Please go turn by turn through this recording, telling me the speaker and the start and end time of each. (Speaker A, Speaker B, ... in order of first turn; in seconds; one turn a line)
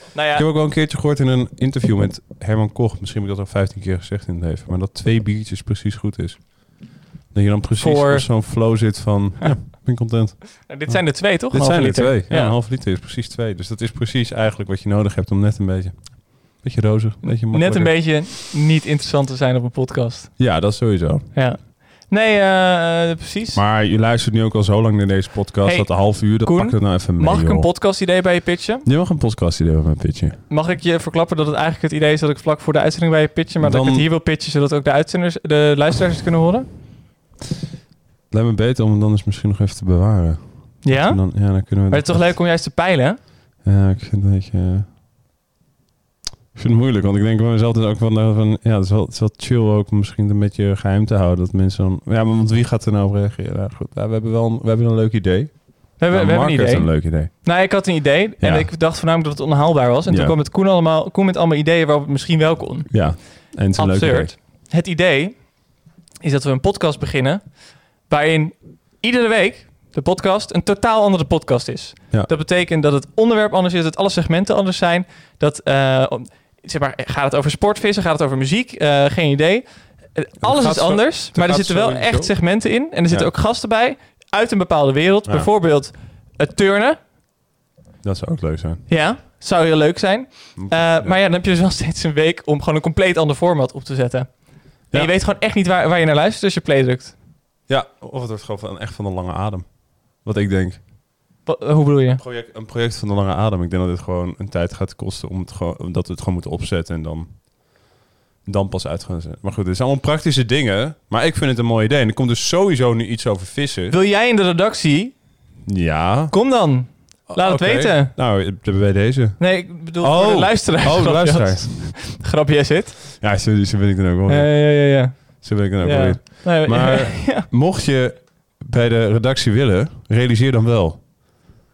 Speaker A: 0.1-0.5
Speaker B: 0.3-18.2
Speaker A: 7.8-8.6
Speaker A: 10.7-12.6
Speaker A: 17.2-20.7
Speaker B: 20.4-21.3
Speaker A: 21.3-23.6
Speaker B: 23.5-27.7
Speaker A: 25.6-28.9
Speaker B: 28.8-30.4
Speaker A: 30.5-36.7
Speaker B: 33.6-34.1
Speaker B: 38.3-42.4
Speaker A: 40.8-43.2
Speaker B: 43.6-44.9
Speaker B: 46.5-57.8
Speaker A: 56.0-87.0
Speaker B: 58.4-58.7
Speaker B: 60.1-60.4
Speaker B: 62.9-64.3
Speaker B: 80.4-83.3
Speaker B: 85.2-85.5
Speaker B: 88.0-88.9
Speaker A: 88.9-97.1
Speaker B: 90.6-91.2
Speaker B: 97.7-100.9
Speaker A: 101.4-102.2
Speaker B: 102.1-107.8
Speaker B: 108.5-114.0
Speaker A: 113.9-115.2
Speaker B: 115.7-116.8
Speaker A: 116.3-118.1
Speaker B: 117.3-122.1
Speaker A: 119.4-123.1
Speaker B: 123.2-131.1
Speaker A: 124.3-127.5